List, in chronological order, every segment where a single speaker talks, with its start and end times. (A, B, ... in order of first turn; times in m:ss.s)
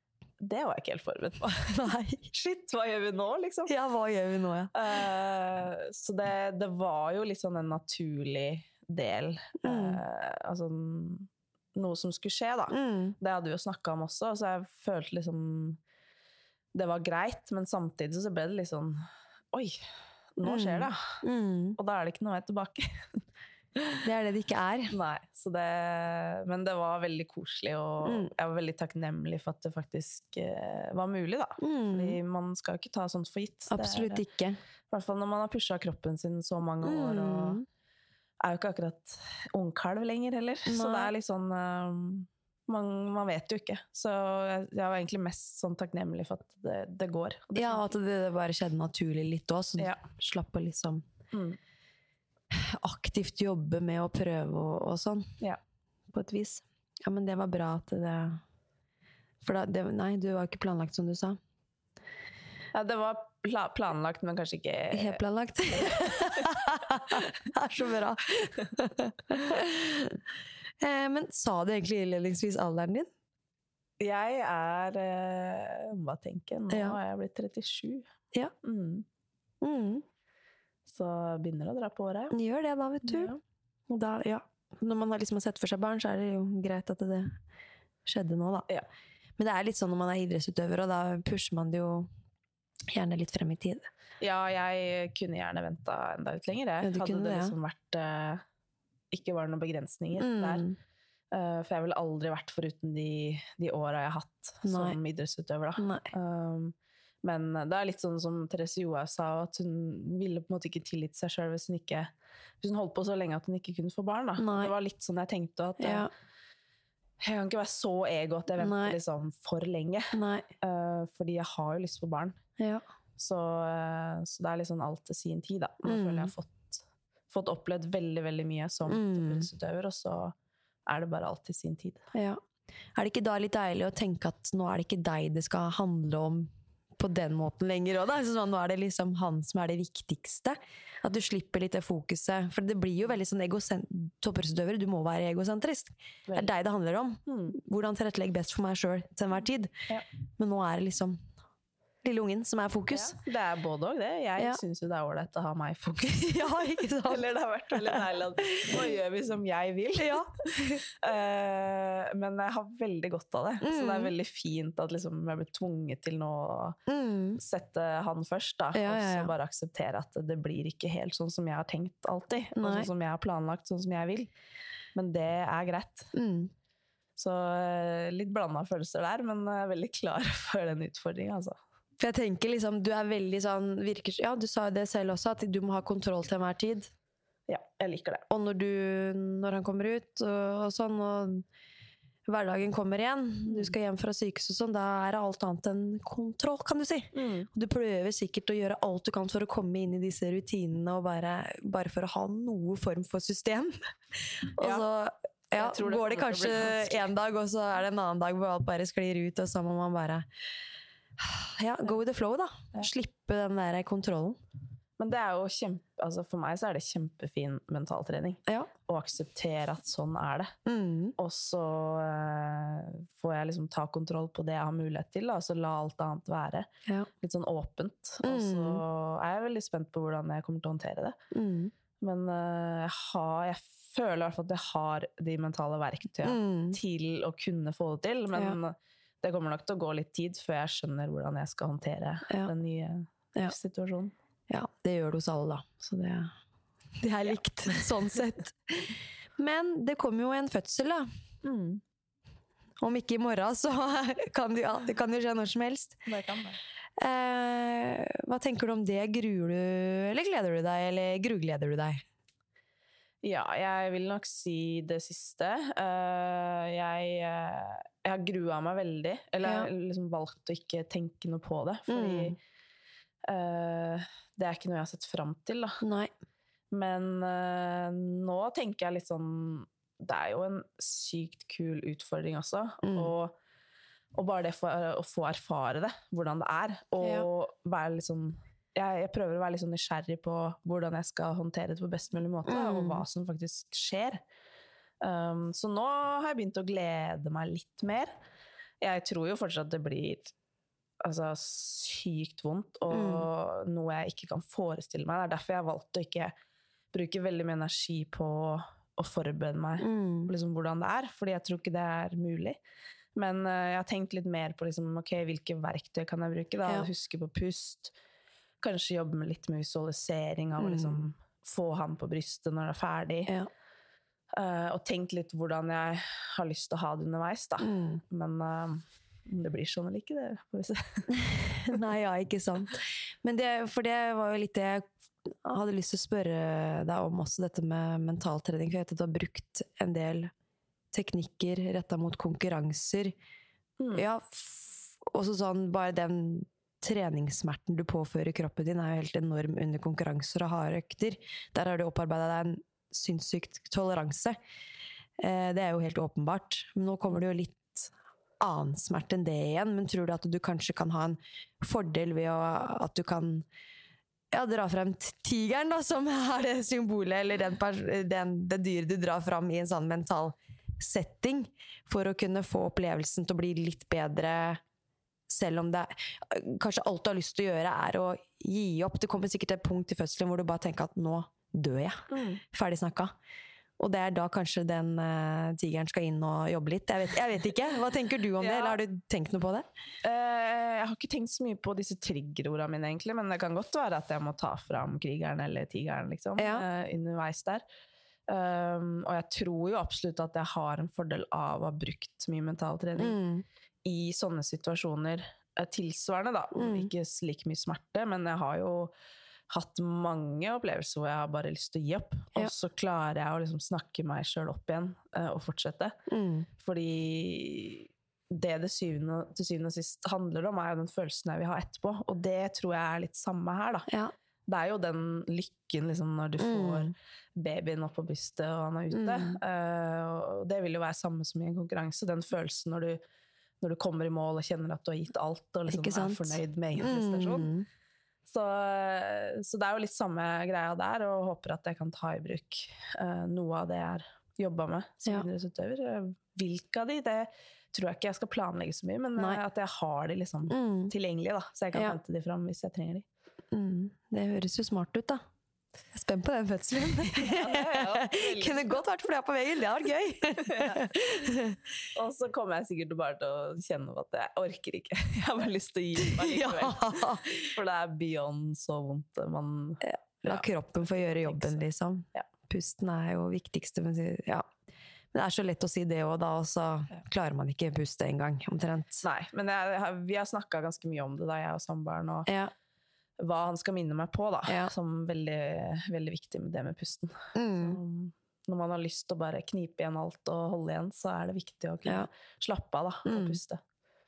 0:00.4-0:01.8 A
0:01.7-0:02.3 B
0:02.3-0:03.7 A
0:03.7-0:04.7 B
0:04.8-0:15.8 A
0:09.6-0:10.0 B
0:12.7-0:13.2 B
0:16.7-0:19.8 A
0:20.4-0:21.0 A
0:20.4-0:21.8 B
0:21.8-0:23.2 A
0:24.0-0:25.0 B
0:24.9-0:34.2 A
0:28.0-0:28.3 B
0:31.6-0:32.2 B
0:33.7-0:34.6 B
0:34.9-0:37.6 A
0:36.8-0:37.6 B
0:38.4-0:47.8 A
0:40.7-0:41.1 B
0:47.6-0:51.0 B
0:51.3-0:51.6 A
0:52.5-0:55.3 B
0:56.1-0:58.4 B
0:59.4-1:01.4 B
1:02.7-1:05.2 A
1:04.9-1:10.2 B
1:05.8-1:07.3 A
1:10.8-1:13.1 B
1:14.0-1:18.0 A
1:16.7-1:17.0 B
1:18.6-1:19.0 A
1:19.6-1:20.0 B
1:20.9-1:22.3 A
1:22.3-1:23.3 B
1:23.1-1:23.4 A
1:23.9-1:27.4 B
1:28.1-1:28.7 B
1:29.4-1:32.1 B
1:32.9-1:33.9 B
1:34.2-1:38.4 A
1:36.8-1:37.6 B
1:39.1-1:40.6 A
1:40.2-1:40.8 B
1:41.3-1:56.1 A
1:44.6-1:45.0 B
1:45.8-1:46.1 B
1:54.4-1:54.7 B
1:55.8-1:56.1 B
1:57.2-2:02.4 A
1:58.6-1:59.0 B
2:00.1-2:00.5 B
2:02.6-2:02.8 B
2:03.2-2:10.3 A
2:05.8-2:06.3 B
2:08.9-2:09.5 B
2:10.9-2:12.0 A
2:12.2-2:12.4 B
2:13.0-2:29.7 B
2:27.3-2:27.6 A
2:30.4-2:31.2 B
2:32.0-2:33.2 B
2:32.9-2:36.5 A
2:36.2-2:38.8 B
2:37.1-2:40.3 A
2:40.0-2:40.8 B
2:40.9-2:46.8 A
2:43.6-2:44.1 B
2:46.9-2:47.4 B
2:47.4-2:54.3 A
2:48.7-2:49.3 B
2:52.6-2:52.9 B
2:55.0-2:56.1 A
2:56.1-2:56.5 B
2:57.2-3:01.6 A
3:02.0-3:06.9 B
3:07.5-3:08.2 A
3:08.3-3:11.4 B
3:12.3-3:30.3 B
3:13.5-3:13.7 A
3:17.2-3:17.5 A
3:24.6-3:24.8 A
3:25.6-3:27.1 A
3:31.2-3:34.4 B
3:35.0-3:40.6 A
3:40.7-3:41.2 B
3:41.2-3:46.7 A
3:47.2-3:51.2 A
3:48.2-3:48.8 B
3:51.3-3:51.7 B
3:52.0-4:04.1 A
3:56.2-3:56.8 B
4:04.5-4:06.3 B
4:07.0-4:11.1 B
4:11.4-4:11.8 A
4:12.8-4:16.0 B
4:16.1-4:16.6 A
4:17.0-4:22.0 B
4:23.2-4:32.4 A
4:29.4-4:29.7 B
4:31.9-4:32.4 B
4:33.2-4:35.8 A
4:35.8-4:36.1 B
4:36.7-4:43.3 A
4:42.8-4:43.1 B
4:44.1-4:54.2 A
4:47.0-4:47.3 B
4:52.5-4:53.0 B
4:55.0-4:58.1 A
4:58.8-5:00.3 A
5:01.0-5:06.3 A
5:02.9-5:03.3 B
5:06.9-5:12.6 A
5:09.8-5:10.3 B
5:13.2-5:17.9 A
5:18.6-5:23.3 A
5:20.6-5:21.1 B
5:24.3-5:31.1 A
5:27.6-5:28.0 B
5:31.1-5:40.3 B
5:40.9-5:43.2 B
5:43.8-5:44.1 A
5:43.9-5:54.4 B
5:55.2-6:03.5 B
6:04.3-6:14.6 B
6:15.3-6:23.1 B
6:22.1-6:22.4 A
6:23.8-6:29.7 B
6:28.4-6:28.8 A
6:30.0-6:37.6 A
6:36.4-6:36.7 B
6:38.3-6:43.2 A
6:43.0-6:43.4 B
6:43.8-6:48.9 A
6:46.6-6:46.9 B
6:49.5-6:56.0 A
6:56.1-6:56.5 B
6:56.6-7:03.9 A
7:03.9-7:04.1 B
7:04.5-7:13.0 A
7:06.4-7:06.9 B
7:08.9-7:09.4 B
7:13.6-7:17.5 A
7:15.7-7:17.7 B
7:18.3-7:33.0 A
7:30.5-7:30.9 B
7:33.5-7:35.2 B
7:35.9-7:41.6 B
7:37.2-7:38.8 A
7:40.4-7:41.0 A
7:42.0-7:51.6 A
7:46.0-7:47.4 B
7:49.9-7:54.5 B
7:55.1-7:59.0 B
7:59.0-8:02.3 A
8:02.3-8:02.5 B
8:03.2-8:13.6 A
8:04.5-8:04.7 B
8:07.4-8:07.8 B
8:13.1-8:13.4 B